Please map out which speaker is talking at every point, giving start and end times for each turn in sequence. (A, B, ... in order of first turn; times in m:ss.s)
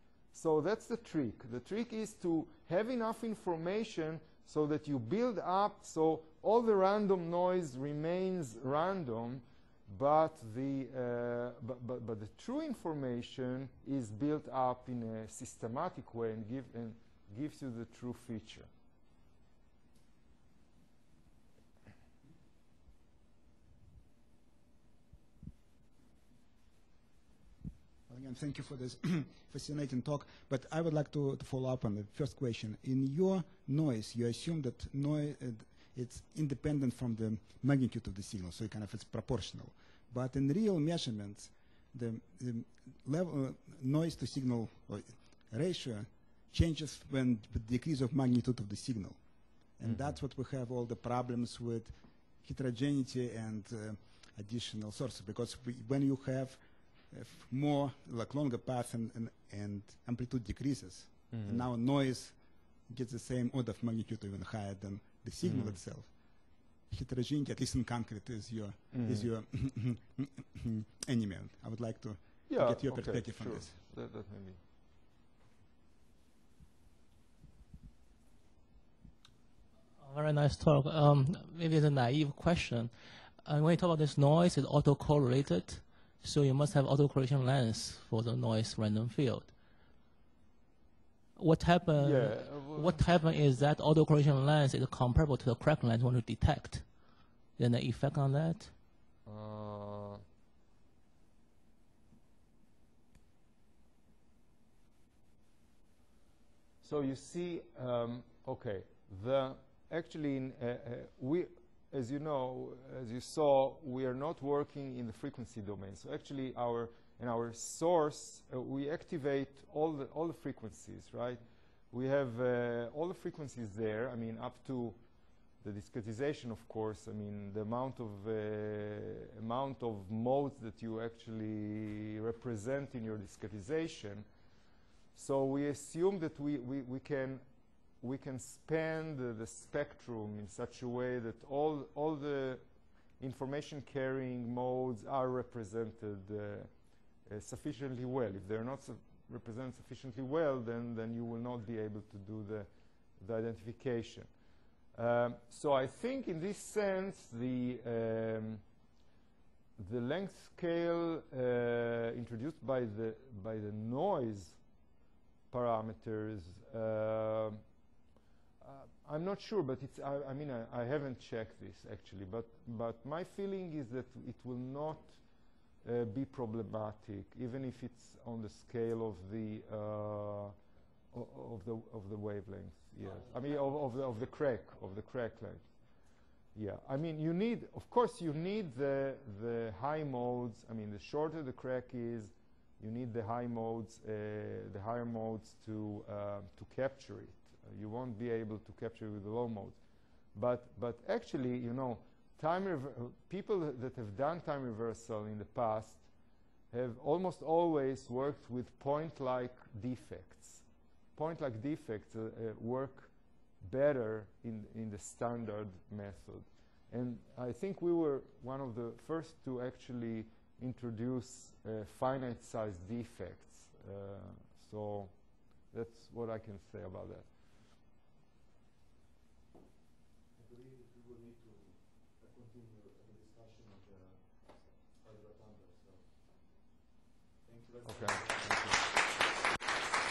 0:00.3-0:18.7 A
0:28.1-0:49.2 B
0:49.8-1:06.1 B
0:49.8-0:50.2 A
1:01.3-1:01.7 A
1:05.4-1:05.8 A
1:06.9-1:13.8 B
1:08.9-1:09.3 A
1:12.5-1:14.6 A
1:20.0-1:29.5 C
1:31.4-1:36.9 C
1:32.0-1:33.0 A
1:37.6-1:38.7 C
1:39.3-1:40.2 A
1:46.8-2:05.0 A
2:05.6-2:14.3 A
2:15.2-2:17.4 A
2:18.0-2:22.6 A
2:23.2-2:26.7 A
2:27.3-2:34.3 A
2:35.0-2:38.6 A
2:39.8-2:44.6 A
2:45.5-2:47.6 A
2:48.6-2:55.2 A
2:55.8-3:00.6 A
3:01.1-3:05.6 A
3:06.6-3:19.8 A
3:20.4-3:26.0 A
3:26.7-3:30.6 A
3:31.2-3:33.1 A
3:33.6-3:45.1 A
3:45.7-3:47.3 A
3:50.4-3:56.1 D
3:57.5-3:58.6 D
3:57.9-3:58.8 A